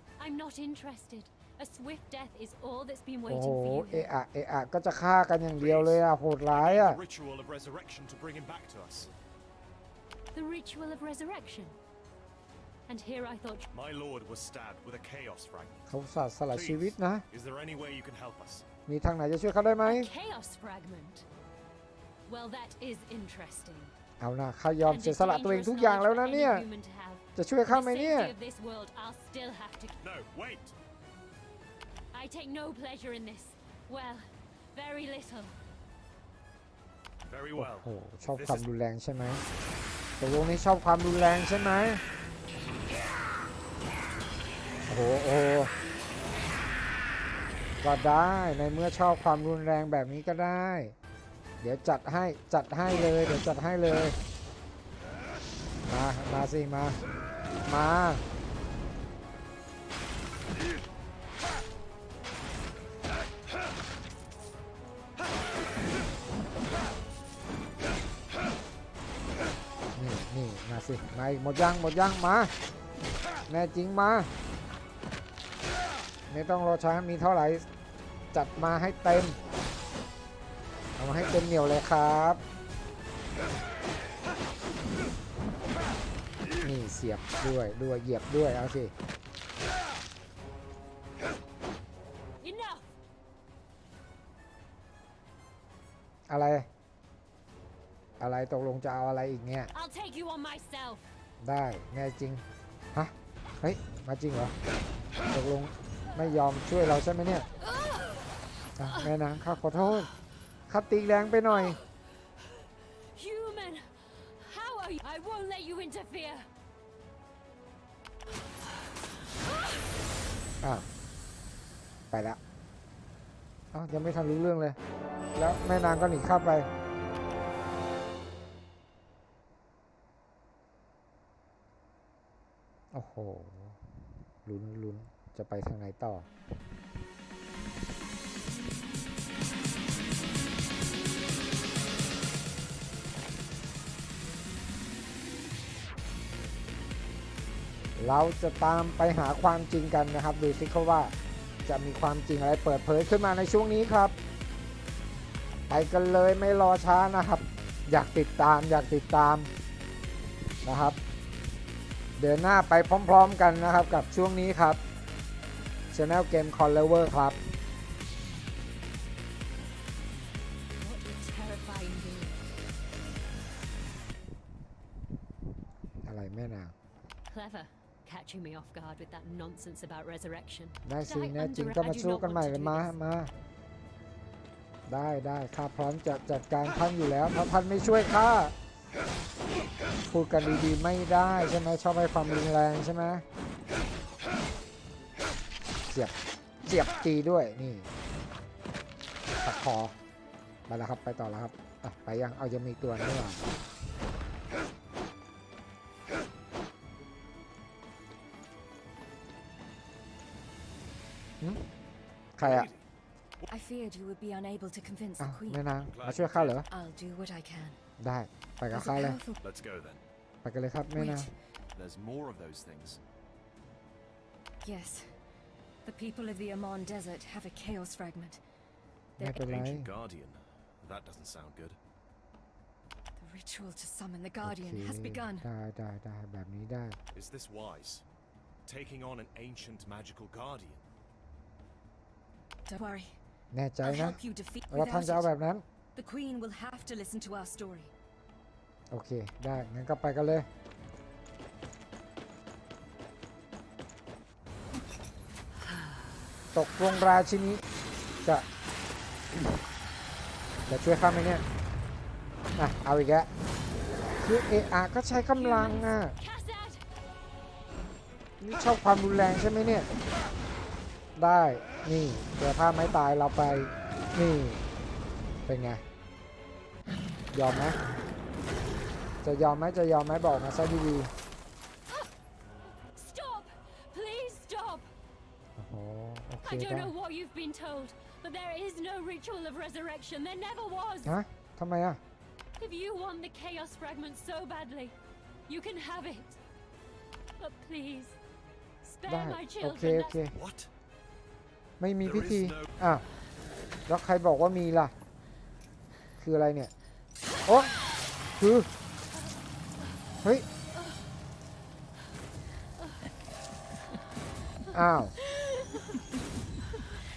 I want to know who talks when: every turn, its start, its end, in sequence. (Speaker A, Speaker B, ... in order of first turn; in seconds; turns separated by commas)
Speaker A: 0.2-4.1, Speaker B: 3.3-7.0, Speaker C: 5.6-9.1, Speaker A: 10.3-11.8, Speaker A: 12.9-13.7, Speaker C: 13.7-15.8, Speaker B: 15.9-17.2, Speaker C: 16.5-18.6, Speaker B: 18.9-20.1, Speaker A: 19.8-21.2, Speaker A: 22.2-23.9, Speaker B: 24.2-26.6, Speaker A: 24.9-30.0, Speaker B: 27.4-28.3, Speaker C: 30.0-30.7, Speaker A: 32.1-35.5, Speaker C: 37.2-38.7, Speaker B: 37.5-39.4, Speaker B: 40.2-42.0, Speaker B: 44.9-45.7, Speaker B: 47.8-50.9, Speaker B: 51.6-54.2, Speaker B: 55.9-57.0, Speaker B: 57.6-58.2, Speaker B: 70.0-72.5, Speaker B: 73.5-74.3, Speaker B: 76.3-77.6, Speaker B: 78.3-79.4, Speaker B: 81.0-82.4, Speaker B: 86.6-88.9, Speaker A: 92.4-92.8, Speaker B: 96.3-96.7, Speaker B: 98.2-99.7, Speaker A: 99.7-101.0, Speaker B: 101.4-102.4, Speaker B: 102.9-104.5, Speaker B: 105.3-107.5, Speaker B: 108.8-110.1, Speaker B: 110.7-111.8, Speaker A: 113.1-116.5, Speaker A: 119.4-119.7, Speaker B: 122.1-122.4, Speaker B: 123.7-124.8, Speaker B: 125.3-126.7, Speaker B: 132.9-133.8, Speaker B: 134.4-136.3, Speaker B: 148.0-151.1, Speaker B: 151.7-154.1, Speaker B: 155.7-159.5, Speaker B: 160.6-161.0, Speaker B: 162.2-164.8, Speaker B: 165.9-167.4, Speaker A: 170.8-172.4, Speaker B: 176.0-176.7, Speaker A: 177.3-182.9, Speaker B: 180.8-183.3, Speaker B: 184.9-188.5, Speaker B: 190.1-193.2, Speaker B: 196.6-197.9, Speaker B: 199.4-199.9, Speaker B: 200.7-203.4, Speaker B: 212.3-212.7, Speaker C: 212.4-212.8, Speaker D: 213.5-215.6, Speaker B: 215.2-216.7, Speaker C: 215.8-216.6, Speaker D: 216.7-217.8, Speaker B: 218.0-219.2, Speaker D: 218.7-219.4, Speaker C: 219.4-220.0, Speaker B: 220.4-221.3, Speaker D: 220.9-221.3, Speaker C: 221.7-223.0, Speaker D: 224.6-225.1, Speaker D: 225.8-228.4, Speaker D: 229.2-229.5, Speaker B: 229.2-229.9, Speaker C: 229.3-231.8, Speaker D: 233.2-235.5, Speaker B: 234.4-237.0, Speaker C: 237.1-238.0, Speaker C: 238.6-240.8, Speaker D: 242.7-243.2, Speaker B: 243.5-244.2, Speaker D: 243.8-245.3, Speaker B: 244.7-245.6, Speaker D: 245.9-247.9, Speaker B: 248.9-250.5, Speaker B: 256.5-257.6, Speaker B: 260.7-261.4, Speaker B: 262.6-263.3, Speaker B: 264.2-266.1, Speaker A: 265.3-266.8, Speaker B: 268.4-269.9, Speaker B: 271.2-274.6, Speaker B: 275.5-275.8, Speaker B: 277.3-277.8, Speaker B: 279.2-281.1, Speaker A: 282.9-284.9, Speaker B: 285.6-286.9, Speaker A: 286.4-291.2, Speaker B: 291.0-292.0, Speaker A: 292.6-294.9, Speaker A: 295.5-296.4, Speaker A: 297.4-298.2, Speaker A: 298.8-300.2, Speaker B: 299.1-300.4, Speaker C: 300.3-300.7, Speaker B: 301.8-303.0, Speaker C: 302.0-302.7, Speaker B: 303.9-304.9, Speaker B: 306.2-306.7, Speaker B: 307.4-307.7, Speaker B: 308.4-308.7, Speaker B: 314.7-315.1